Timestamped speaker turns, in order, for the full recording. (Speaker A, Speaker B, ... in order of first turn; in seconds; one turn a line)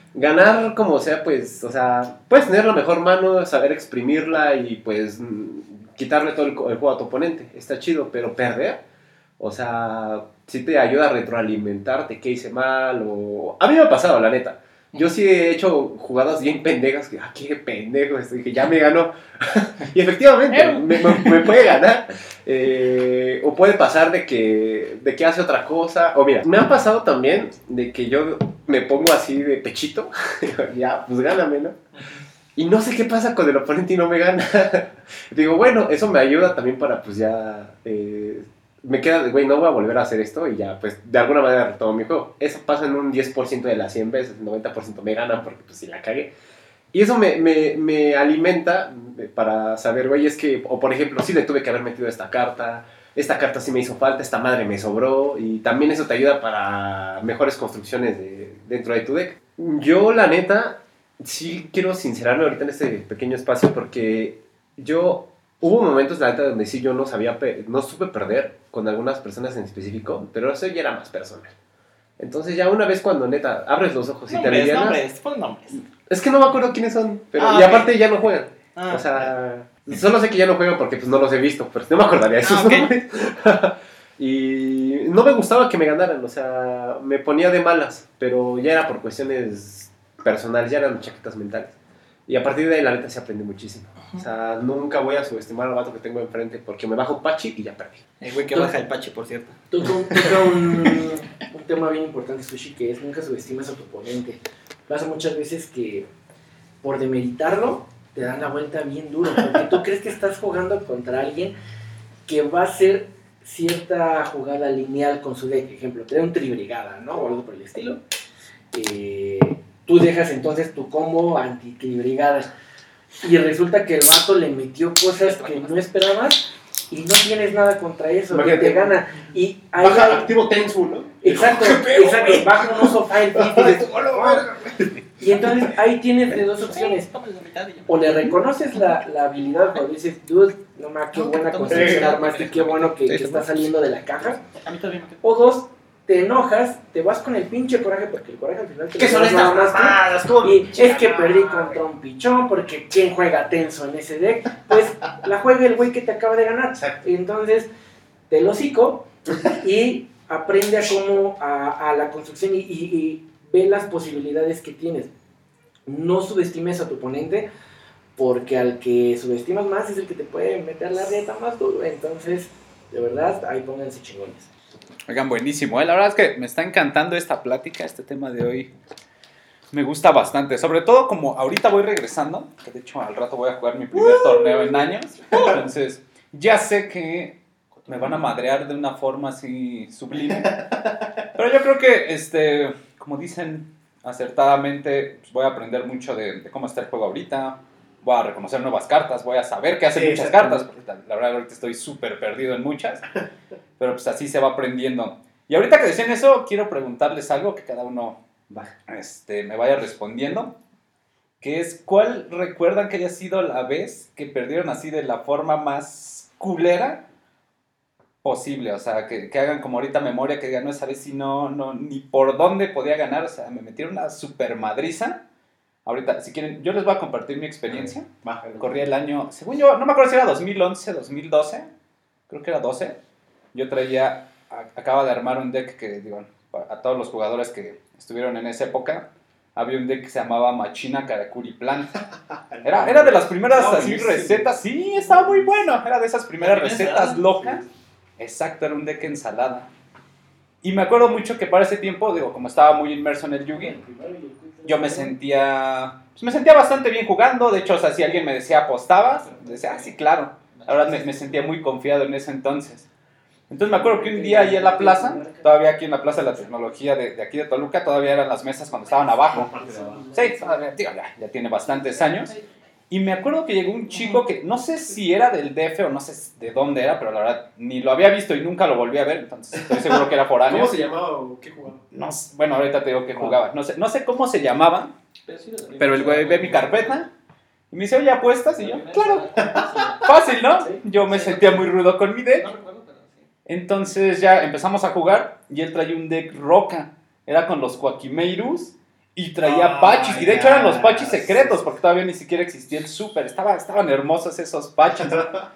Speaker A: 0.1-8.8
Speaker A: 9.4-31.8
Speaker B: 20.5-21.7
Speaker B: 31.9-32.2
Speaker A: 32.5-46.3
Speaker A: 46.9-71.5
Speaker A: 72.2-75.0
Speaker B: 74.3-75.8
Speaker A: 76.0-91.7
Speaker B: 77.4-77.9
Speaker B: 78.7-79.3
Speaker B: 82.4-82.9
Speaker A: 92.3-98.0
Speaker B: 98.2-99.6
Speaker C: 99.7-106.1
Speaker B: 100.1-101.0
Speaker C: 106.8-111.5
Speaker C: 112.2-118.0
Speaker C: 118.7-122.5
Speaker C: 123.2-130.3
Speaker B: 125.2-125.8
Speaker A: 128.3-129.0
Speaker A: 129.8-135.7
Speaker C: 131.2-134.5
Speaker C: 135.2-137.1
Speaker B: 136.6-138.1
Speaker C: 137.9-144.4
Speaker B: 141.1-143.0
Speaker A: 141.7-142.1
Speaker B: 144.2-145.2
Speaker C: 145.2-157.7
Speaker A: 148.9-151.8
Speaker A: 156.8-157.0
Speaker C: 158.3-165.1
Speaker C: 165.8-167.5
Speaker C: 168.2-174.5
Speaker D: 175.1-178.7
Speaker D: 179.7-190.6
Speaker D: 191.3-203.0
Speaker A: 199.9-200.6
Speaker D: 203.8-208.2
Speaker D: 208.9-210.5
Speaker D: 211.4-217.0
Speaker D: 218.2-225.2
Speaker D: 225.8-231.7
Speaker A: 227.7-228.8
Speaker D: 232.3-233.0
Speaker D: 233.5-241.9
Speaker A: 242.4-244.6
Speaker D: 242.6-247.6
Speaker B: 246.4-247.3
Speaker D: 248.2-249.7
Speaker D: 250.6-253.8
Speaker C: 253.5-255.1
Speaker D: 254.7-262.9
Speaker B: 259.1-259.9
Speaker B: 260.5-261.1
Speaker D: 263.5-269.6
Speaker C: 263.6-265.6
Speaker C: 268.9-270.7
Speaker A: 269.3-270.0
Speaker D: 270.1-272.3
Speaker B: 272.1-272.4
Speaker D: 272.9-280.7
Speaker A: 279.5-281.9
Speaker D: 281.9-284.9
Speaker B: 285.2-287.0
Speaker D: 285.8-287.1
Speaker D: 287.7-289.2
Speaker B: 288.6-290.1
Speaker A: 289.4-290.1
Speaker D: 290.0-292.5
Speaker B: 291.0-291.7
Speaker B: 292.4-293.3
Speaker D: 293.5-305.3
Speaker A: 299.4-301.6
Speaker A: 305.1-305.4